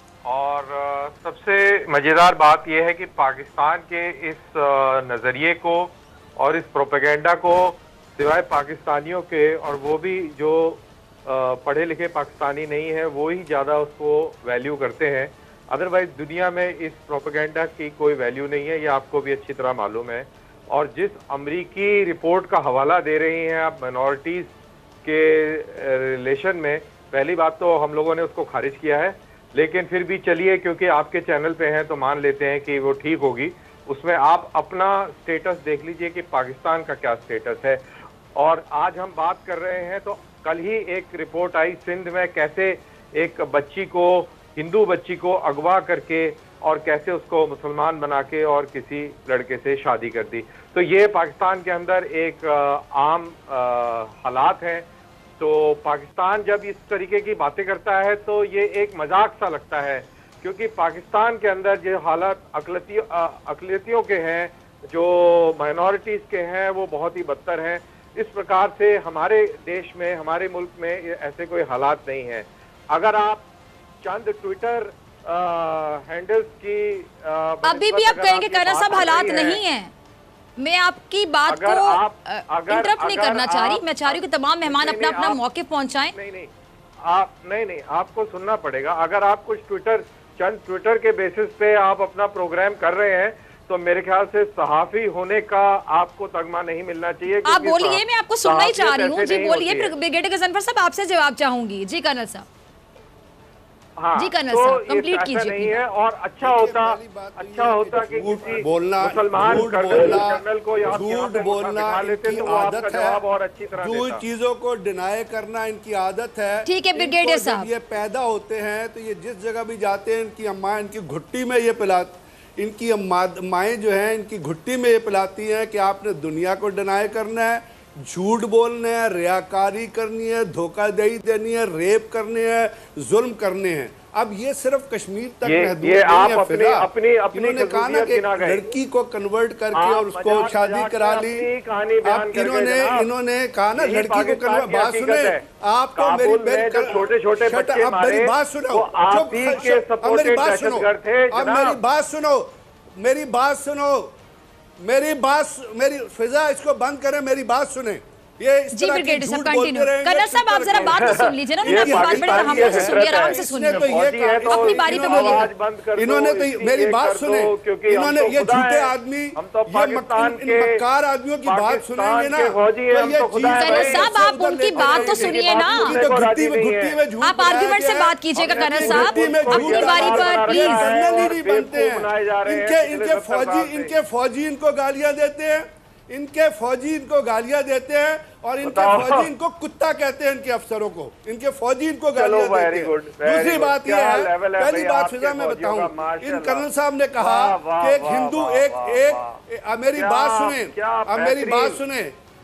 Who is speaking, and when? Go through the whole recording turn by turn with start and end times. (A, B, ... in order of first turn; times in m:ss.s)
0:00.3-0:24.5 A
0:25.0-0:37.8 A
0:38.4-0:54.9 A
0:55.4-1:13.5 A
1:14.0-1:19.6 A
1:17.6-1:19.9 B
1:20.6-1:26.1 B
1:21.5-1:25.4 A
1:26.2-1:26.5 A
1:27.0-1:39.9 A
1:37.4-1:42.5 B
1:44.0-1:54.2 A
1:44.2-1:45.8 B
1:46.4-1:53.2 C
1:53.8-2:21.5 C
1:56.7-1:57.7 B
2:15.4-2:18.8 A
2:19.8-2:23.1 A
2:22.0-2:34.1 C
2:23.8-2:25.4 A
2:26.0-2:31.8 A
2:34.8-3:22.1 C
2:38.7-2:45.5 B
2:40.7-2:50.8 A
2:51.5-2:54.1 A
2:53.6-2:56.0 B
2:54.7-2:57.0 A
2:57.2-3:00.9 B
2:58.5-3:03.9 A
3:08.6-3:09.3 A
3:12.2-3:16.7 A
3:17.2-3:19.4 A
3:20.0-3:21.8 A